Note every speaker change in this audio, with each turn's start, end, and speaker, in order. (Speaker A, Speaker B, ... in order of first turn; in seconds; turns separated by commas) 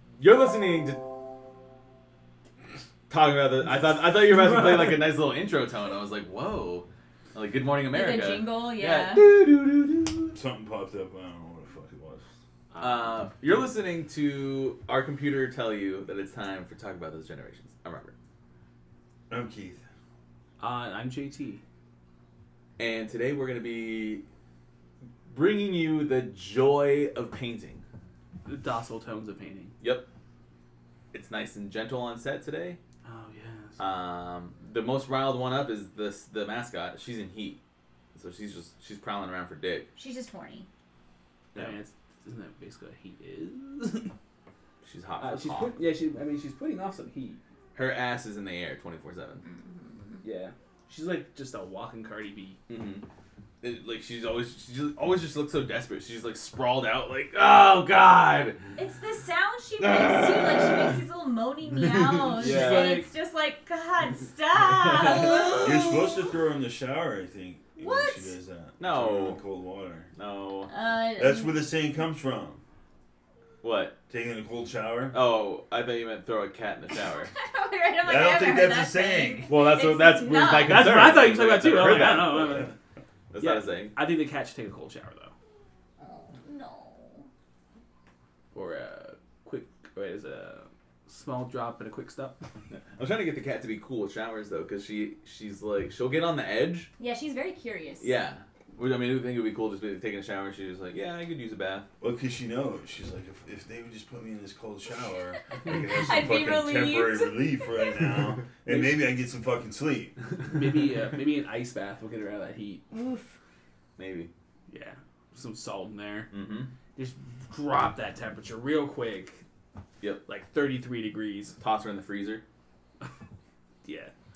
Speaker A: 0.2-1.1, Speaker A: 3.1-10.4, Speaker B: 4.3-5.0, Speaker C: 7.9-9.3, Speaker D: 10.3-12.2, Speaker B: 12.7-13.2, Speaker A: 12.8-18.1, Speaker D: 19.3-19.8, Speaker B: 20.6-21.6, Speaker A: 22.8-24.2, Speaker A: 25.3-27.8, Speaker B: 28.4-29.7, Speaker A: 29.8-30.1, Speaker A: 31.1-32.8, Speaker B: 33.0-33.8, Speaker A: 33.8-37.6, Speaker A: 38.1-39.9, Speaker C: 40.0-40.7, Speaker B: 41.6-44.1, Speaker A: 44.8-45.7, Speaker B: 45.2-47.4, Speaker A: 47.8-49.4, Speaker C: 49.4-50.2, Speaker B: 50.2-52.6, Speaker A: 52.7-53.0, Speaker A: 53.6-58.6, Speaker C: 58.8-66.3, Speaker A: 59.8-61.0, Speaker A: 61.8-63.0, Speaker B: 62.3-63.1, Speaker A: 64.6-65.8, Speaker B: 65.1-65.5, Speaker D: 65.5-70.1, Speaker C: 67.8-68.3, Speaker A: 68.8-69.4, Speaker A: 70.1-70.7, Speaker C: 70.7-71.6, Speaker D: 71.2-72.6, Speaker A: 73.6-74.0, Speaker D: 74.1-75.2, Speaker A: 75.1-77.3, Speaker C: 77.3-81.1, Speaker D: 78.0-79.5, Speaker A: 79.5-82.7, Speaker B: 80.7-82.7, Speaker D: 82.3-82.7, Speaker A: 83.3-84.0, Speaker B: 83.4-85.3, Speaker C: 86.0-87.3, Speaker B: 88.5-92.4, Speaker A: 92.7-96.9, Speaker C: 97.0-98.1, Speaker A: 98.0-101.9, Speaker D: 102.0-110.2, Speaker C: 105.5-107.9, Speaker A: 108.1-108.4, Speaker B: 108.7-109.0, Speaker B: 110.5-112.9, Speaker C: 112.9-113.3, Speaker A: 114.0-114.3, Speaker B: 114.7-116.3, Speaker A: 116.3-116.7, Speaker B: 117.0-119.4, Speaker B: 120.3-121.6, Speaker A: 121.6-122.4, Speaker B: 123.8-124.1